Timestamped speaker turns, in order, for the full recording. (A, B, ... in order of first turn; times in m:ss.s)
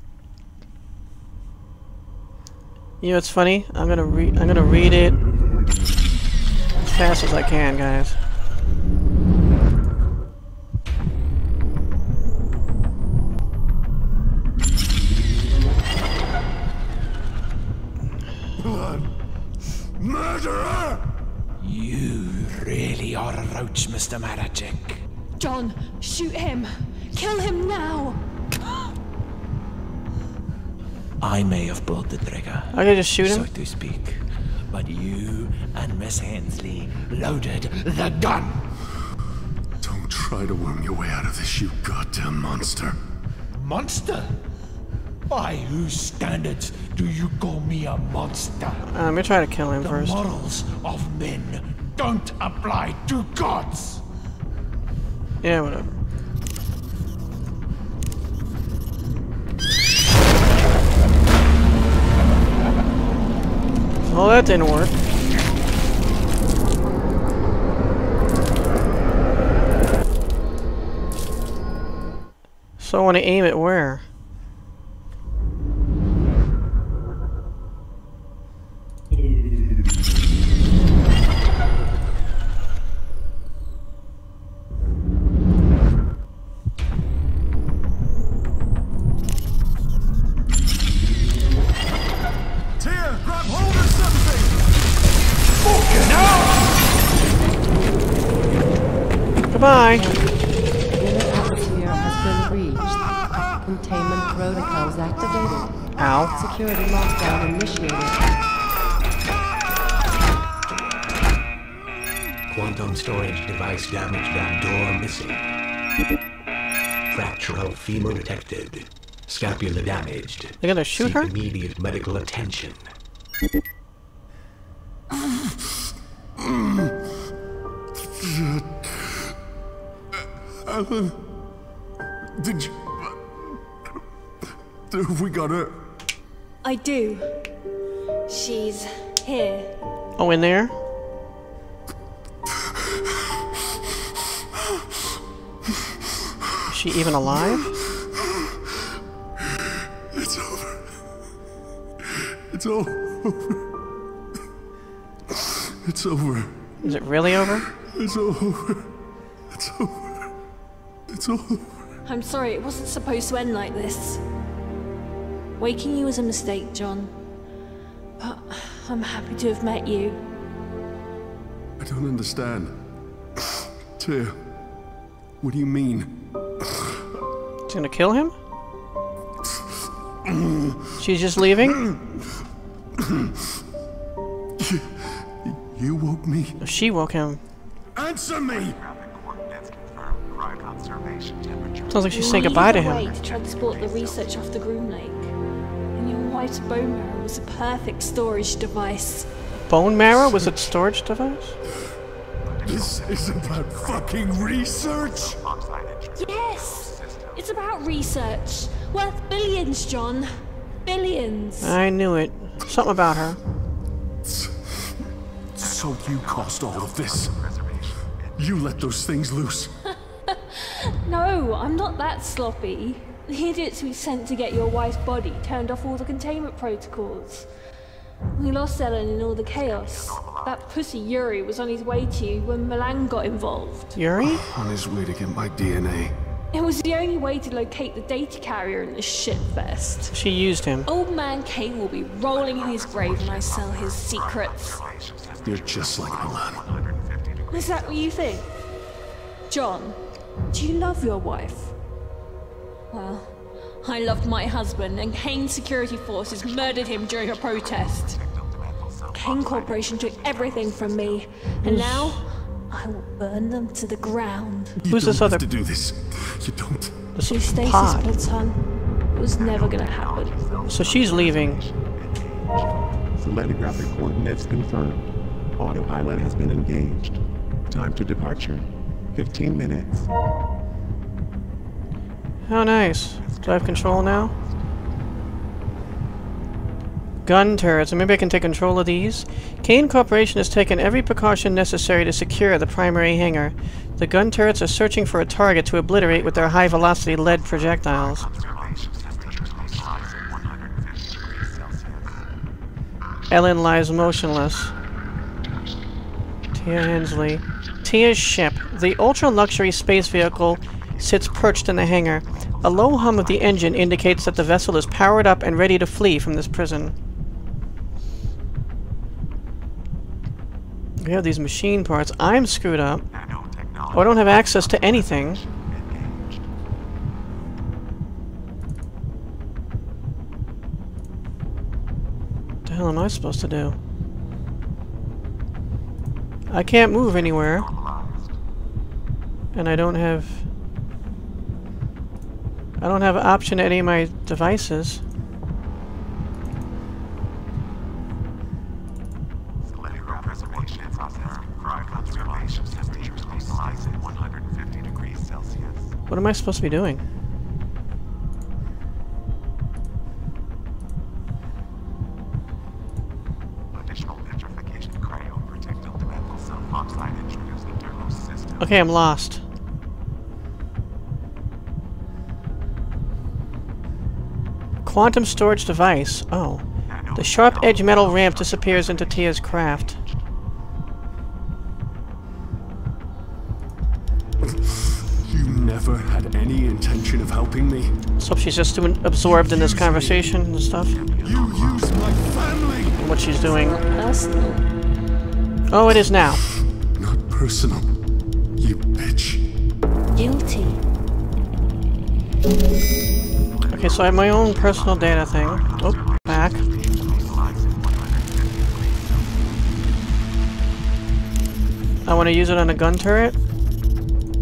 0:03.0-0:05.2 A
0:06.8-0:08.2 A
0:18.6-0:19.1 B
0:20.0-0:21.0 B
0:21.6-0:25.0 C
0:25.4-0:28.2 D
0:31.2-0:38.7 C
0:32.7-0:33.5 A
0:39.8-0:43.0 B
0:43.5-0:44.4 C
0:45.3-0:48.8 C
0:48.8-0:50.2 A
0:49.8-0:54.0 C
0:55.4-0:55.9 A
1:04.1-1:05.0 A
1:12.8-1:14.0 A
1:32.8-1:34.7 B
1:35.6-1:36.8 B
1:39.5-1:40.1 A
1:39.9-1:40.4 E
1:40.9-1:43.1 E
1:43.6-1:48.3 E
1:46.0-1:46.3 A
1:52.5-1:55.4 F
1:57.1-2:02.9 F
2:00.6-2:01.3 A
2:05.1-2:05.6 B
2:06.4-2:07.0 B
2:08.0-2:09.4 B
2:10.6-2:11.2 B
2:12.4-2:13.6 B
2:14.9-2:15.8 B
2:16.6-2:17.4 D
2:18.3-2:19.8 D
2:20.2-2:20.7 A
2:22.6-2:23.1 B
2:24.6-2:25.0 B
2:26.7-2:27.7 A
2:27.3-2:28.5 B
2:30.1-2:31.0 B
2:32.1-2:33.6 B
2:35.3-2:37.0 B
2:36.8-2:37.6 A
2:37.8-2:38.9 B
2:39.5-2:40.3 B
2:41.1-2:41.9 B
2:42.0-2:44.2 D
2:45.6-2:47.1 D
2:48.2-2:50.2 D
2:51.8-2:52.8 B
2:53.4-2:54.4 B
2:55.4-2:56.8 B
2:57.7-2:58.3 A
3:00.2-3:00.8 B
3:01.0-3:01.8 A
3:01.6-3:02.1 B
3:03.0-3:03.3 B
3:04.6-3:06.6 B
3:06.6-3:07.4 A
3:08.0-3:08.8 B
3:11.9-3:13.1 A
3:12.1-3:15.3 D
3:15.9-3:19.3 D
3:19.7-3:21.6 A
3:22.6-3:25.4 B
3:26.1-3:30.3 D
3:30.8-3:31.8 D
3:31.6-3:33.4 A
3:34.2-3:34.9 B
3:35.5-3:37.8 B
3:38.4-3:39.7 B
3:40.3-3:47.5 D
3:48.4-3:53.9 D
3:53.9-3:54.4 A
3:54.2-3:56.1 B
3:56.5-4:00.1 D
4:00.1-4:00.9 A
4:00.8-4:04.8 D
4:05.4-4:06.7 B
4:07.5-4:08.5 D
4:09.5-4:10.0 D
4:10.5-4:11.7 D
4:12.9-4:18.2 D
4:19.1-4:24.8 D
4:21.6-4:22.2 A
4:24.8-4:27.1 B
4:24.9-4:25.4 A
4:27.1-4:28.1 A
4:27.3-4:30.4 D
4:30.7-4:31.6 A
4:33.2-4:40.1 G
4:42.5-4:44.3 A
4:47.2-4:58.3 A
5:03.3-5:04.7 A
5:06.5-5:16.9 A
5:21.0-5:23.0 A
5:23.9-5:25.4 A
5:32.6-5:33.8 A
5:36.5-5:37.7 A
5:39.5-5:40.4 A
5:42.8-5:45.0 A
5:56.1-5:57.0 A
6:08.6-6:09.4 A
6:14.8-6:20.0 A
6:25.2-6:28.0 B
6:28.2-6:31.0 A
6:29.2-6:30.3 B
6:31.2-6:33.0 B
6:33.0-6:33.8 A
6:33.6-6:34.7 D
6:35.7-6:36.4 A
6:36.9-6:37.9 B
6:38.6-6:39.4 B
6:40.2-6:40.8 D
6:43.7-6:46.6 A
6:52.0-6:53.4 A